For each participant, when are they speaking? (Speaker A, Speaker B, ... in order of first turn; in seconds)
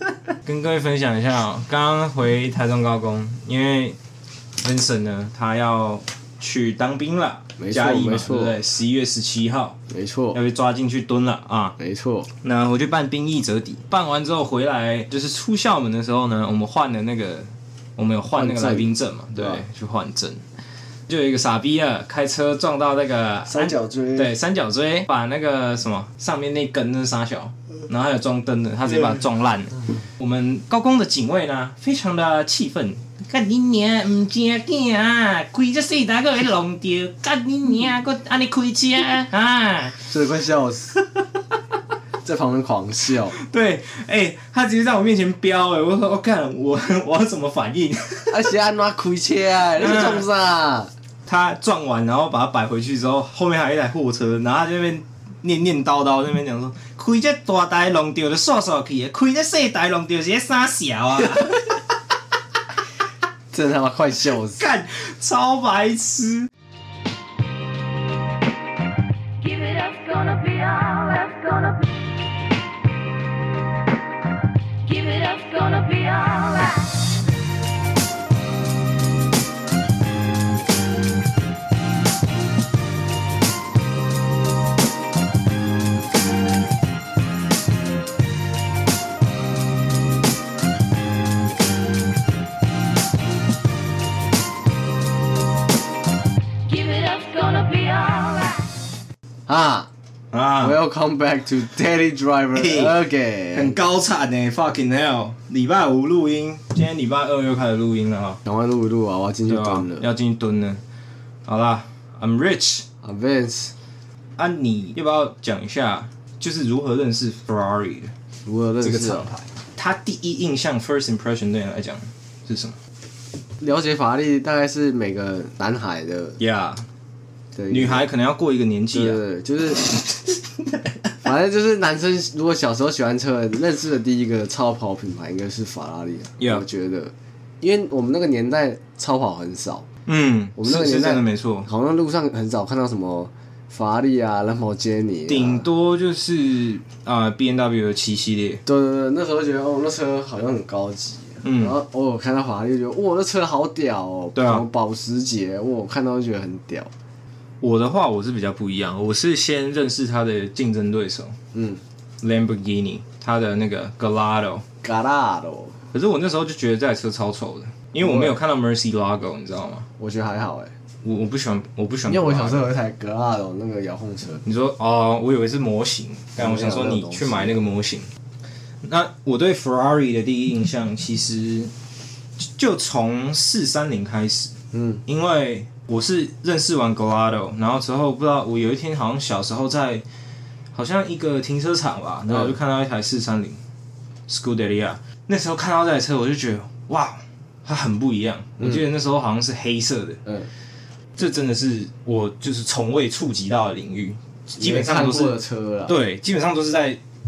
Speaker A: 0.4-4.0, 4.6-9.8, 10.3-11.8, 12.4-20.4, 21.1-40.0, 43.3-48.4, 49.8-50.2, 51.3-61.7, 64.5-66.5, 100.3-100.8, 102.5-103.0, 103.5-108.4, 109.5-110.8, 111.5-112.9, 114.4-118.1, 118.8-122.8, 126.4-126.9, 127.7-129.2, 136.4-136.7, 140.1-141.7, 145.3-148.6, 151.4-151.8, 154.3-154.6, 157.6-161.4, 162.2-164.7, 165.9-169.9, 171.0-172.7, 174.4-178.1, 178.8-181.7, 182.4-184.5, 185.1-190.1, 190.7-193.6, 194.3-200.2, 201.2-207.0
Speaker B: 7.6-8.6, 9.9-10.4, 11.8-12.3, 18.4-19.6, 23.5-24.3, 40.1-41.0, 42.2-43.4, 48.3-50.9, 63.5-64.6, 99.5-99.9, 100.6-103.8, 108.5-110.1, 113.0-113.7, 118.5-119.3, 123.6-126.4, 127.5-128.1, 128.9-129.9, 131.2-139.9, 140.6-145.7, 148.7-156.9, 161.5-161.8, 164.8-165.8, 168.0-168.4, 170.0-170.7, 172.1-174.4, 176.4-177.6, 184.7-185.0, 204.5-206.0
Speaker C: 69.4-71.9, 74.8-76.9, 96.7-98.6